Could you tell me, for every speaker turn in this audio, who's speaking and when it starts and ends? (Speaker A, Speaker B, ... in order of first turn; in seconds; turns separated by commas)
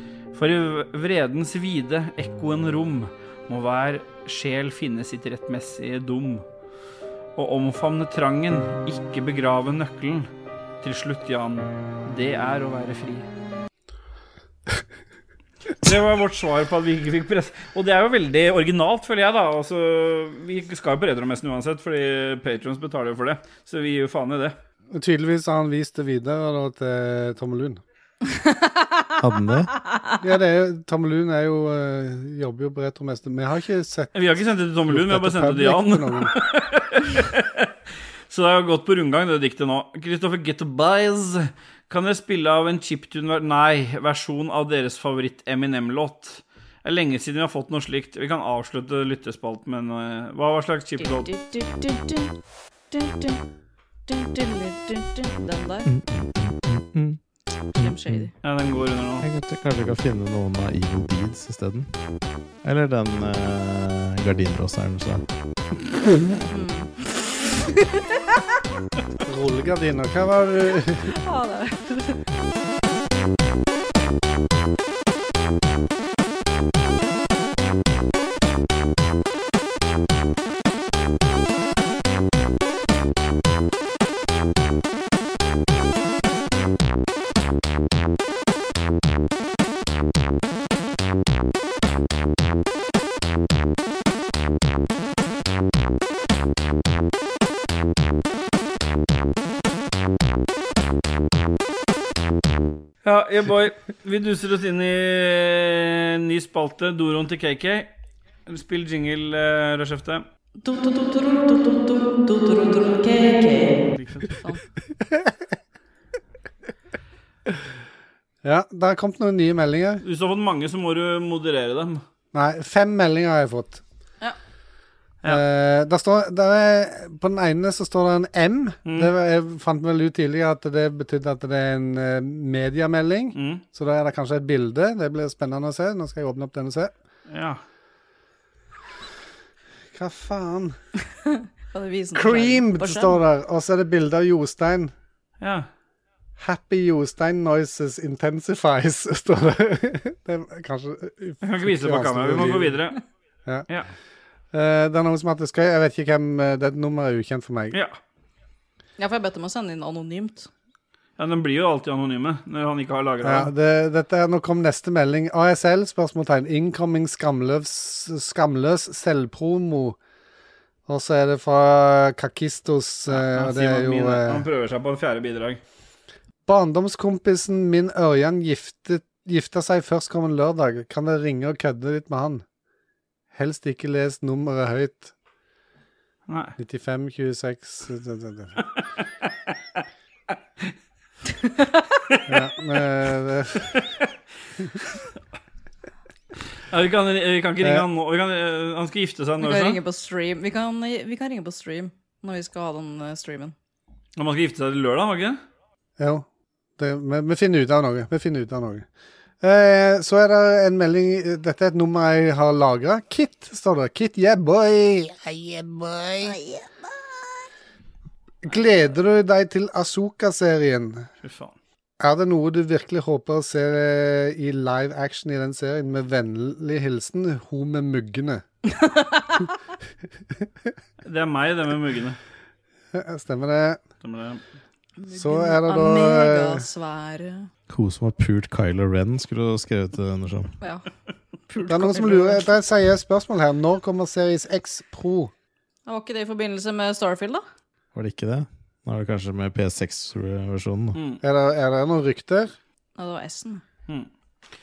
Speaker A: 0.3-6.4, Speaker A: 7.4-10.3, Speaker A: 10.8-13.3, Speaker A: 15.8-24.6, Speaker B: 24.9-27.8, Speaker C: 28.3-29.1, Speaker D: 29.2-29.7, Speaker B: 30.2-36.4, Speaker A: 34.1-37.7, Speaker A: 38.3-51.3, Speaker C: 51.0-52.3, Speaker C: 52.9-53.4, Speaker C: 54.1-55.9, Speaker D: 55.9-57.2, Speaker D: 57.7-58.3, Speaker C: 57.8-58.3, Speaker A: 58.4-59.2, Speaker D: 59.2-61.9, Speaker D: 62.6-65.2, Speaker C: 66.5-68.4, Speaker B: 69.2-71.1, Speaker C: 71.1-72.2, Speaker A: 103.0-107.9, Speaker A: 108.5-110.2, Speaker C: 110.6-113.8, Speaker A: 114.0-114.3, Speaker B: 115.0-115.3, Speaker B: 118.4-120.0, Speaker A: 120.0-122.0, Speaker B: 122.3-123.8, Speaker B: 125.2-136.9, Speaker A: 128.9-129.1, Speaker A: 133.3-133.6, Speaker A: 137.3-137.6, Speaker B: 139.9-140.8, Speaker C: 141.3-143.2, Speaker B: 142.2-144.9, Speaker A: 145.4-145.7, Speaker B: 146.4-152.8, Speaker A: 151.4-153.0, Speaker B: 154.5-157.8, Speaker A: 157.7-158.0, Speaker C: 159.0-160.5, Speaker A: 161.2-163.5, Speaker B: 163.2-170.0, Speaker B: 170.9-174.5, Speaker A: 173.1-175.6, Speaker B: 176.5-182.4, Speaker B: 183.3-185.1, Speaker A: 186.3-186.6, Speaker B: 186.6-188.6, Speaker C: 191.3-191.9, Speaker B: 192.3-193.8, Speaker A: 196.7-199.8, Speaker C: 199.4-203.6, Speaker A: 204.2-205.4, Speaker B: 206.0-206.3, Speaker B: 206.8-208.9, Speaker B: 209.4-216.6, Speaker B: 218.4-221.1, Speaker A: 221.2-221.6, Speaker B: 222.0-228.4, Speaker C: 228.7-229.5, Speaker A: 231.1-232.2, Speaker B: 232.9-233.8, Speaker A: 234.0-234.4, Speaker C: 235.0-237.5, Speaker B: 235.1-236.7, Speaker D: 237.7-240.5, Speaker C: 240.6-240.9, Speaker C: 241.5-242.4, Speaker B: 241.7-245.3, Speaker C: 245.9-247.4, Speaker D: 247.9-251.0, Speaker A: 250.9-251.2, Speaker B: 251.2-252.5, Speaker C: 253.0-253.6